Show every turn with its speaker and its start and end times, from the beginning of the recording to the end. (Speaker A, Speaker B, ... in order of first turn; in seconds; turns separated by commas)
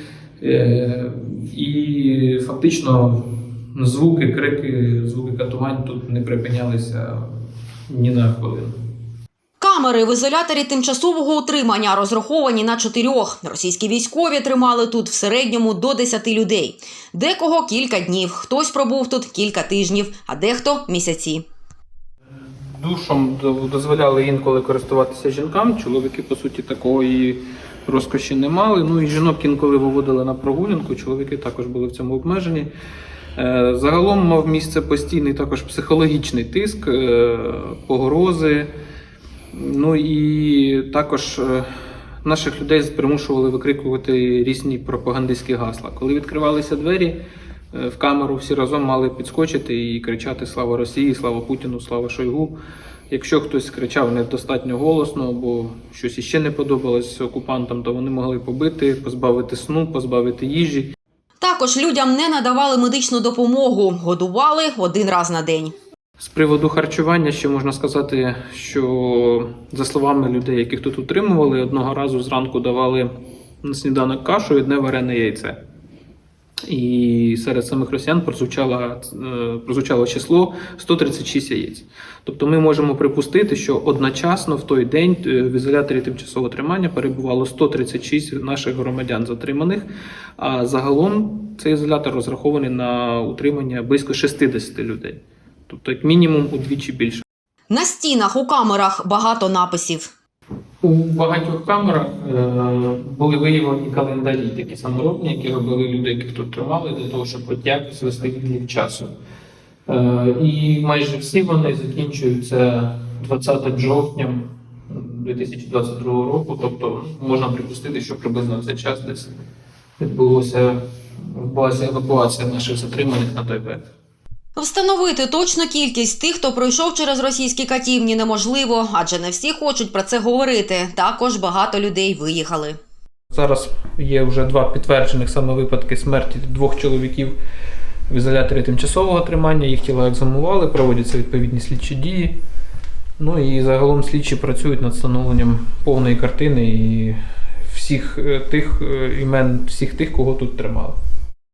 Speaker A: 0.4-7.3, Speaker A: 7.9-8.7, Speaker B: 9.6-21.4, Speaker A: 22.7-32.7, Speaker A: 33.4-38.7, Speaker A: 39.5-41.7, Speaker A: 42.2-47.2, Speaker A: 47.7-52.6, Speaker A: 53.1-60.9, Speaker B: 61.4-65.8, Speaker A: 66.2-73.1, Speaker A: 73.6-75.6, Speaker A: 76.7-89.9, Speaker A: 90.4-97.2, Speaker B: 97.7-100.1, Speaker A: 100.8-109.1, Speaker A: 109.9-119.3, Speaker A: 120.0-123.8, Speaker B: 124.6-132.8, Speaker A: 133.3-137.4, Speaker A: 138.1-142.4, Speaker A: 143.2-151.0